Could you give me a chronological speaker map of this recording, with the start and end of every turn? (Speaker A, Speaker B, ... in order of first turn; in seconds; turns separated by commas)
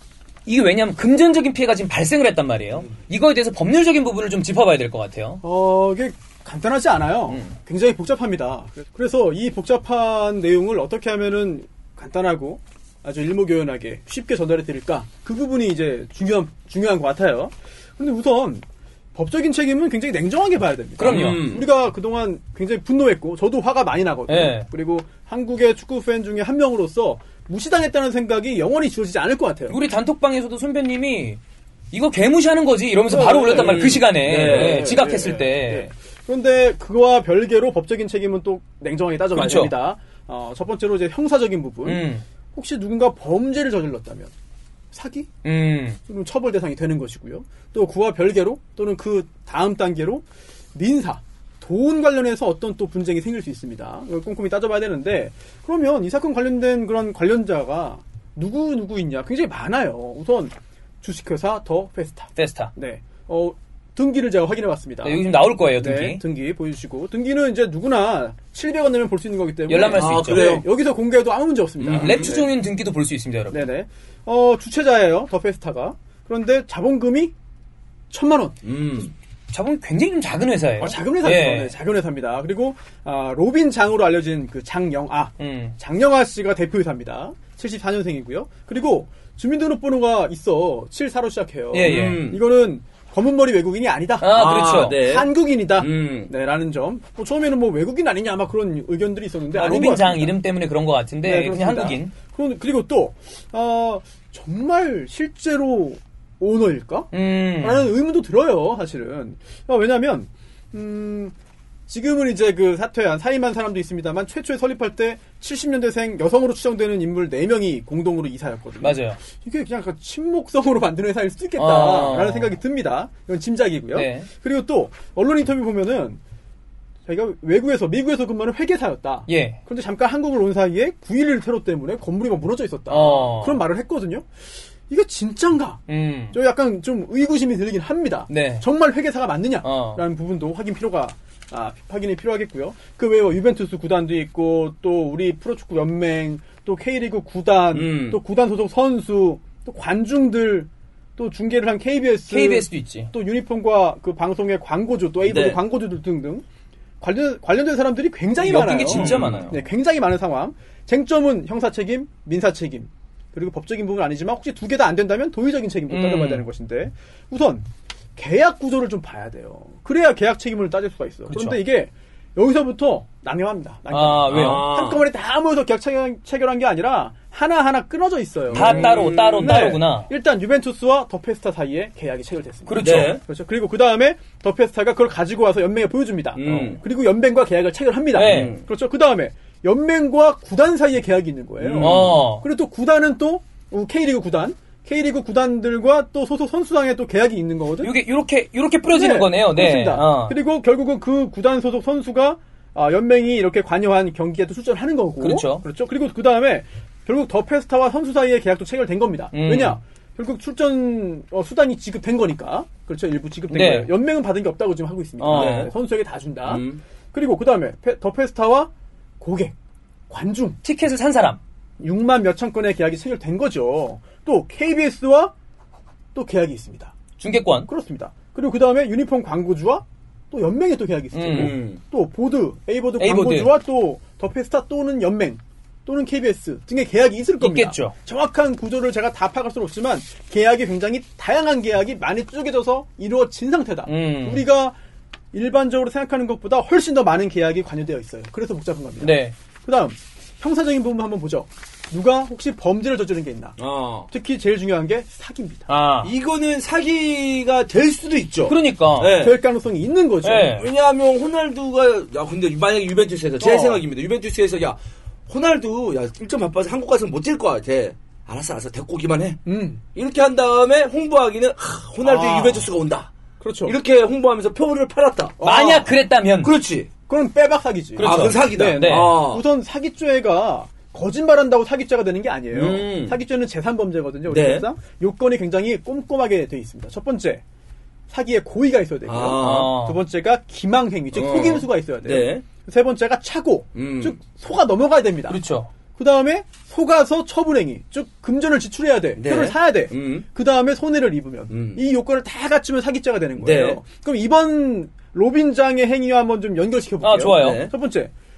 Speaker A: 0.5-5.4, Speaker B: 5.4-29.8, Speaker A: 7.3-7.5, Speaker A: 21.0-21.4, Speaker C: 21.0-21.6, Speaker A: 24.3-24.7, Speaker A: 29.7-31.4, Speaker A: 31.9-35.9, Speaker B: 33.1-44.3, Speaker C: 33.5-35.0, Speaker A: 39.3-39.7, Speaker A: 41.8-42.2, Speaker B: 44.9-45.3, Speaker A: 45.4-46.0, Speaker B: 46.1-72.5, Speaker A: 62.3-62.7, Speaker A: 65.0-66.2, Speaker A: 69.7-70.5, Speaker C: 69.9-70.6, Speaker C: 71.8-72.3, Speaker A: 71.9-73.7, Speaker B: 73.5-77.3, Speaker B: 78.1-78.6, Speaker C: 78.6-79.1, Speaker A: 79.5-81.7, Speaker B: 80.8-94.4, Speaker A: 85.4-85.8, Speaker A: 91.7-92.2, Speaker C: 91.8-92.4, Speaker A: 94.2-95.0, Speaker C: 94.3-96.3, Speaker B: 94.9-100.3, Speaker A: 99.5-102.1, Speaker B: 101.2-111.3, Speaker A: 107.1-107.9, Speaker B: 111.9-126.2, Speaker A: 118.8-119.2, Speaker A: 121.6-122.5, Speaker A: 123.9-124.3, Speaker B: 127.0-134.3, Speaker A: 129.3-129.6, Speaker A: 132.9-133.6, Speaker B: 134.9-156.4, Speaker A: 135.9-136.3, Speaker A: 138.3-138.6, Speaker A: 139.6-140.0, Speaker C: 147.7-148.2, Speaker A: 152.3-153.1, Speaker C: 155.2-155.6, Speaker B: 157.0-197.9, Speaker A: 158.4-159.6, Speaker C: 158.5-159.5, Speaker A: 165.9-166.4, Speaker A: 171.3-171.6, Speaker A: 173.9-174.7, Speaker C: 174.3-175.0, Speaker C: 178.5-179.8, Speaker A: 178.5-180.1, Speaker A: 182.7-183.2, Speaker C: 182.8-183.2, Speaker C: 186.3-186.8, Speaker A: 188.1-188.5, Speaker C: 188.2-188.6, Speaker C: 191.6-192.2, Speaker A: 191.8-192.4, Speaker A: 197.8-200.3, Speaker B: 198.9-219.5, Speaker A: 205.2-205.6, Speaker A: 209.3-209.8, Speaker A: 213.5-213.9, Speaker A: 215.2-215.7, Speaker C: 215.3-215.7, Speaker C: 216.4-216.8, Speaker B: 220.1-220.6, Speaker A: 220.6-221.4, Speaker B: 221.8-225.3, Speaker B: 226.1-226.9, Speaker A: 227.2-227.7, Speaker B: 227.7-244.8, Speaker A: 231.1-231.5, Speaker C: 231.3-231.8, Speaker A: 233.0-233.5, Speaker A: 237.4-237.9, Speaker A: 243.8-244.4, Speaker B: 245.3-253.6, Speaker A: 249.0-249.3, Speaker C: 253.6-254.1, Speaker B: 254.1-255.7, Speaker A: 255.7-256.1, Speaker C: 256.0-259.4, Speaker A: 258.5-259.1, Speaker B: 259.1-260.6, Speaker A: 260.2-260.6, Speaker C: 260.6-264.8, Speaker B: 263.4-263.8, Speaker C: 265.3-269.4, Speaker B: 269.4-269.8, Speaker C: 269.9-273.1, Speaker B: 272.0-272.7, Speaker B: 273.4-273.7, Speaker C: 273.6-275.4, Speaker B: 275.4-275.9, Speaker A: 275.4-276.5, Speaker C: 276.4-276.9, Speaker B: 277.1-287.4, Speaker A: 277.9-279.1, Speaker C: 278.0-279.4, Speaker C: 282.5-283.2, Speaker C: 284.3-284.6, Speaker B: 288.1-295.4, Speaker C: 289.1-289.8, Speaker A: 289.3-290.0, Speaker C: 291.1-292.4, Speaker C: 293.7-294.2, Speaker A: 295.3-295.7, Speaker B: 295.9-308.1, Speaker C: 299.2-300.2, Speaker C: 301.5-301.8, Speaker C: 303.4-303.8, Speaker A: 307.0-307.7, Speaker C: 307.4-307.7